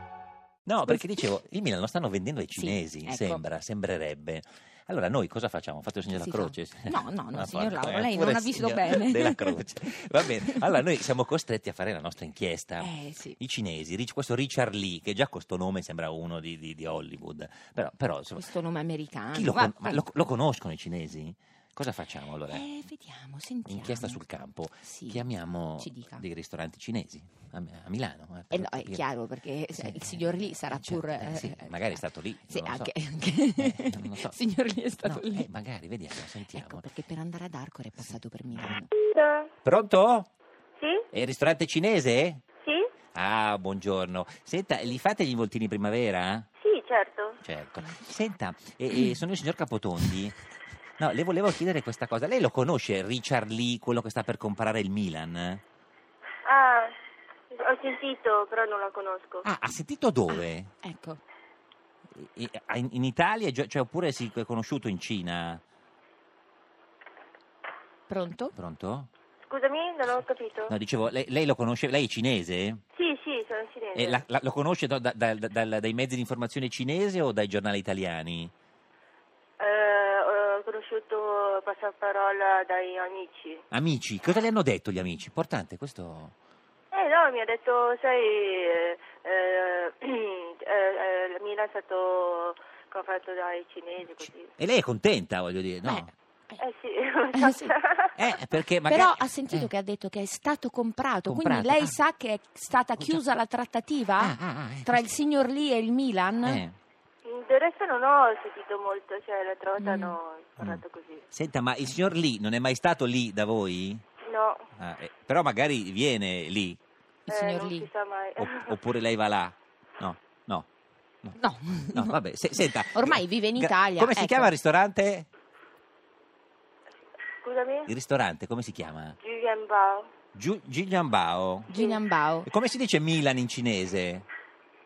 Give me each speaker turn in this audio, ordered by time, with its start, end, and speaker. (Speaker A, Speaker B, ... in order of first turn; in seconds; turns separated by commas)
Speaker A: 0.7-18.5, Speaker B: 2.6-3.4, Speaker B: 6.1-9.6, Speaker B: 10.2-10.7, Speaker B: 12.8-13.4, Speaker B: 18.4-20.1, Speaker A: 19.3-22.7, Speaker B: 22.5-24.2, Speaker A: 23.7-29.1, Speaker B: 24.9-25.2, Speaker B: 25.8-26.2, Speaker B: 28.5-35.5, Speaker A: 29.7-32.9, Speaker A: 33.6-34.4, Speaker A: 35.0-36.9, Speaker B: 36.5-38.9, Speaker C: 39.1-39.5, Speaker A: 39.6-40.3, Speaker C: 40.8-41.1, Speaker A: 41.1-42.4, Speaker C: 42.6-42.9, Speaker A: 43.1-46.5, Speaker C: 46.6-47.4, Speaker A: 47.4-50.4, Speaker A: 51.0-55.6, Speaker C: 56.5-57.0, Speaker C: 57.5-59.5, Speaker A: 59.4-60.7, Speaker B: 60.3-61.2, Speaker A: 62.1-65.6, Speaker B: 68.1-68.5, Speaker A: 68.5-69.1, Speaker C: 69.4-70.8, Speaker A: 70.7-72.8, Speaker C: 73.0-74.2, Speaker A: 74.0-78.5, Speaker C: 79.6-83.6, Speaker A: 83.7-86.3, Speaker C: 86.9-94.5, Speaker A: 94.2-96.1, Speaker B: 95.9-96.6, Speaker C: 96.6-98.2, Speaker B: 97.3-97.8, Speaker A: 98.2-99.7, Speaker B: 98.9-106.6, Speaker A: 101.3-102.0, Speaker A: 103.0-103.2, Speaker A: 104.2-105.0, Speaker A: 106.4-106.8, Speaker C: 107.2-111.2, Speaker B: 109.8-110.2, Speaker A: 110.6-114.0, Speaker C: 114.2-114.7, Speaker A: 114.8-116.8, Speaker B: 117.3-117.9, Speaker C: 117.3-118.8, Speaker A: 118.4-120.7, Speaker B: 121.4-122.2, Speaker A: 121.9-125.3, Speaker B: 122.7-124.5, Speaker C: 127.4-127.9, Speaker A: 127.9-129.2, Speaker C: 129.2-130.1, Speaker A: 130.3-131.7, Speaker B: 131.7-132.5, Speaker C: 131.8-132.0, Speaker A: 132.4-134.3